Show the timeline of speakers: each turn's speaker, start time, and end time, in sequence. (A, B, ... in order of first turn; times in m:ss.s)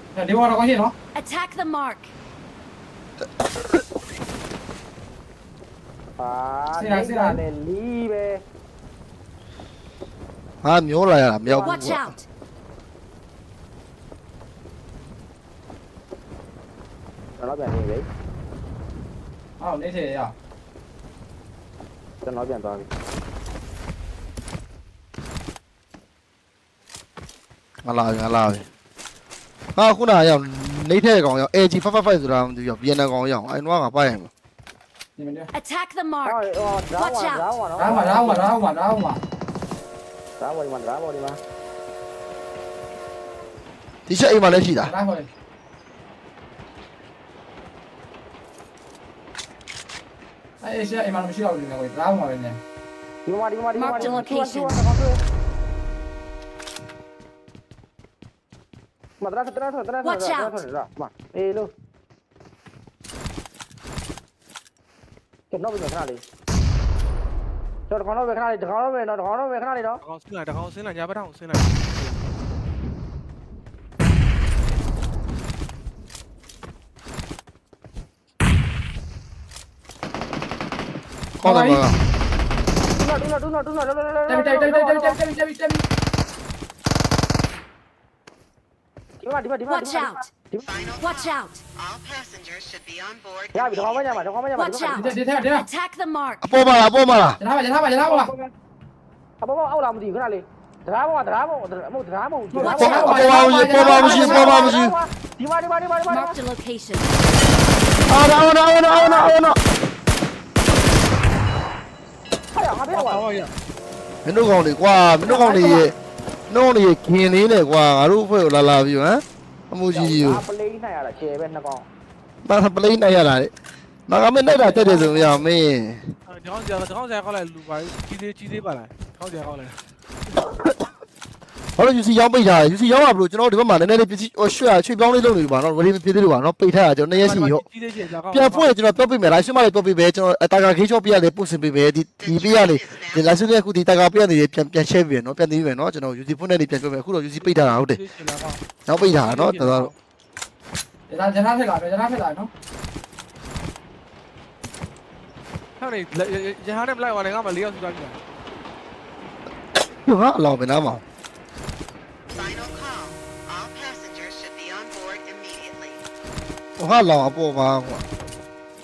0:00.2-0:00.9 A
0:01.2-0:02.1 B
0:06.2-0:08.4 C
0:06.8-0:07.4 A
0:10.6-0:12.1 D
0:11.4-0:11.9 C
0:11.6-0:12.3 B
0:17.4-0:18.1 C
0:19.6-0:20.3 A
0:22.2-0:22.9 C
0:27.8-0:28.7 D
0:29.8-0:34.3 D
0:35.2-0:35.5 A
0:35.5-0:36.4 B
0:36.2-0:38.5 C
0:37.0-0:37.4 B
0:37.8-0:39.2 A
0:40.4-0:41.4 C
0:44.1-0:44.9 D
0:44.8-0:45.3 A
0:50.6-0:52.6 A
0:53.3-0:55.2 C
0:53.8-0:54.8 B
0:59.2-1:01.7 C
1:00.0-1:00.6 B
1:05.5-1:06.2 C
1:07.9-1:10.0 C
1:10.0-1:12.2 E
1:21.4-1:22.0 D
1:21.4-1:21.8 A
1:22.9-1:25.2 C
1:24.3-1:25.8 A
1:29.2-1:30.8 C
1:29.7-1:30.3 B
1:30.7-1:31.3 F
1:31.0-1:31.6 B
1:33.3-1:34.0 F
1:33.5-1:35.2 C
1:34.5-1:36.5 B
1:34.9-1:35.7 A
1:36.4-1:37.4 D
1:37.4-1:38.3 A
1:38.0-1:38.5 C
1:39.4-1:46.4 C
1:42.5-1:44.8 A
1:42.6-1:43.3 B
1:42.7-1:44.9 D
1:44.0-1:44.3 B
1:46.1-1:47.2 B
1:48.1-1:49.6 D
1:48.9-1:49.4 C
1:52.5-1:53.3 C
1:52.9-1:53.5 E
1:54.2-1:55.9 D
1:55.3-1:55.8 C
1:56.5-2:00.4 D
1:59.9-2:01.9 C
2:02.4-2:03.5 D
2:04.1-2:06.1 D
2:04.6-2:05.4 C
2:06.3-2:09.8 E
2:10.3-2:10.9 D
2:11.8-2:17.6 D
2:17.1-2:18.7 E
2:18.3-2:28.0 D
2:22.5-2:23.1 F
2:27.4-2:29.9 E
2:28.9-2:29.9 D
2:31.1-2:32.5 A
2:35.8-2:38.2 E
2:39.8-2:41.0 D
2:46.8-2:48.0 D